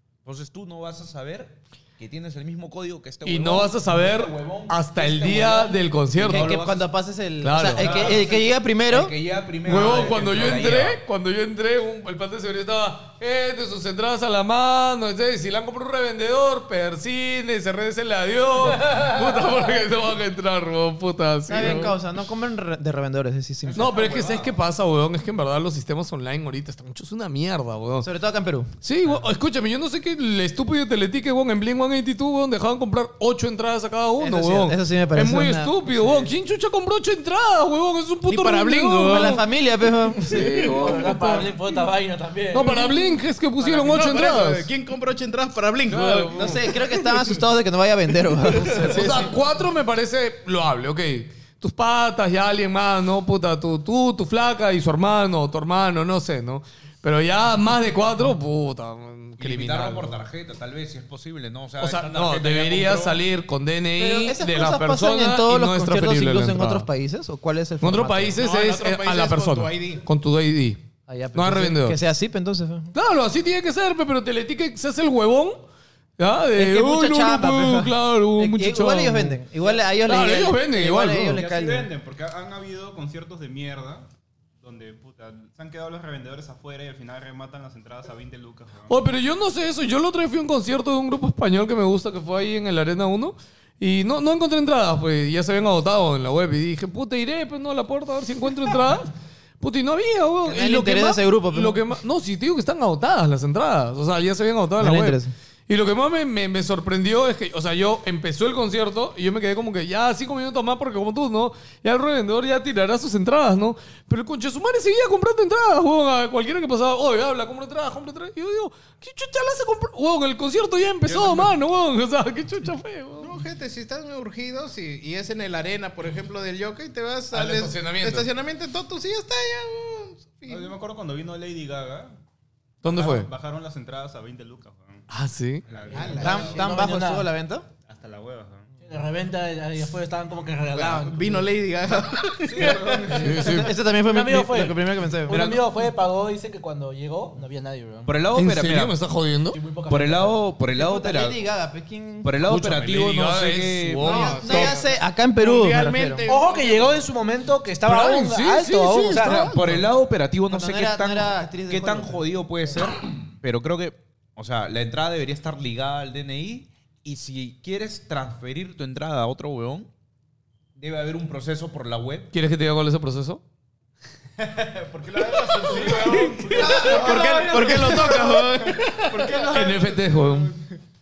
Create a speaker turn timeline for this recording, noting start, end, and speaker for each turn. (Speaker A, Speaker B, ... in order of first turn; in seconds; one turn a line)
Speaker A: 0.2-6.9
Speaker B: 3.2-6.6
Speaker C: 6.2-9.2
Speaker B: 7.4-8.1
Speaker A: 7.7-11.0
Speaker B: 9.6-21.9
Speaker C: 21.5-24.1
Speaker A: 23.7-24.5
Speaker B: 23.8-28.1
Speaker C: 28.0-28.7
Speaker B: 28.8-39.4
Speaker C: 34.2-36.1
Speaker D: 38.3-39.4
Speaker C: 39.0-40.7
Speaker B: 40.2-41.5
Speaker E: 40.7-42.8
Speaker B: 42.5-44.7
Speaker D: 43.6-46.6
Speaker B: 45.9-46.6
Speaker C: 46.3-49.3
Speaker B: 48.5-60.3
Speaker A: 59.4-63.2
Speaker B: 61.8-66.9
Speaker C: 64.0-68.5
Speaker B: 67.8-70.8
Speaker D: 68.4-70.0
Speaker C: 71.1-72.9
Speaker B: 71.3-72.0
Speaker B: 72.9-75.6
Speaker B: 76.2-79.4
Speaker C: 76.5-81.9
Speaker B: 80.0-81.4
Speaker F: 81.3-84.1
Speaker F: 84.6-89.0
Speaker B: 88.9-99.1
Speaker B: 99.6-123.3
Speaker C: 100.5-101.8
Speaker C: 104.8-105.3
Speaker F: 121.1-121.5
Speaker D: 123.2-130.7
Speaker B: 127.3-128.3
Speaker F: 130.5-132.1
Speaker B: 132.8-133.3
Speaker F: 132.8-135.1
Speaker B: 135.1-135.6
Speaker F: 135.7-136.7
Speaker D: 135.9-136.5
Speaker E: 135.9-137.3
Speaker C: 136.2-137.7
Speaker F: 137.9-138.7
Speaker E: 138.8-141.5
Speaker D: 140.9-143.2
Speaker F: 142.4-143.5
Speaker E: 142.6-143.2
Speaker B: 143.1-143.7
Speaker C: 143.4-145.4
Speaker E: 144.1-148.1
Speaker A: 145.3-145.7
Speaker A: 148.1-149.0
Speaker B: 148.3-149.6
Speaker E: 149.5-150.4
Speaker A: 149.9-151.4
Speaker C: 150.7-152.3
Speaker A: 152.2-154.6
Speaker B: 152.4-154.8
Speaker D: 154.0-157.0
Speaker C: 154.2-156.2
Speaker E: 156.3-159.5
Speaker B: 157.8-159.5
Speaker A: 159.2-169.9
Speaker C: 160.5-162.3
Speaker A: 170.8-172.3
Speaker B: 172.3-173.4
Speaker F: 174.4-177.8
Speaker E: 175.7-176.9
Speaker C: 176.6-177.8
Speaker D: 176.6-179.1
Speaker B: 176.9-178.8
Speaker F: 178.6-180.6
Speaker B: 179.5-180.5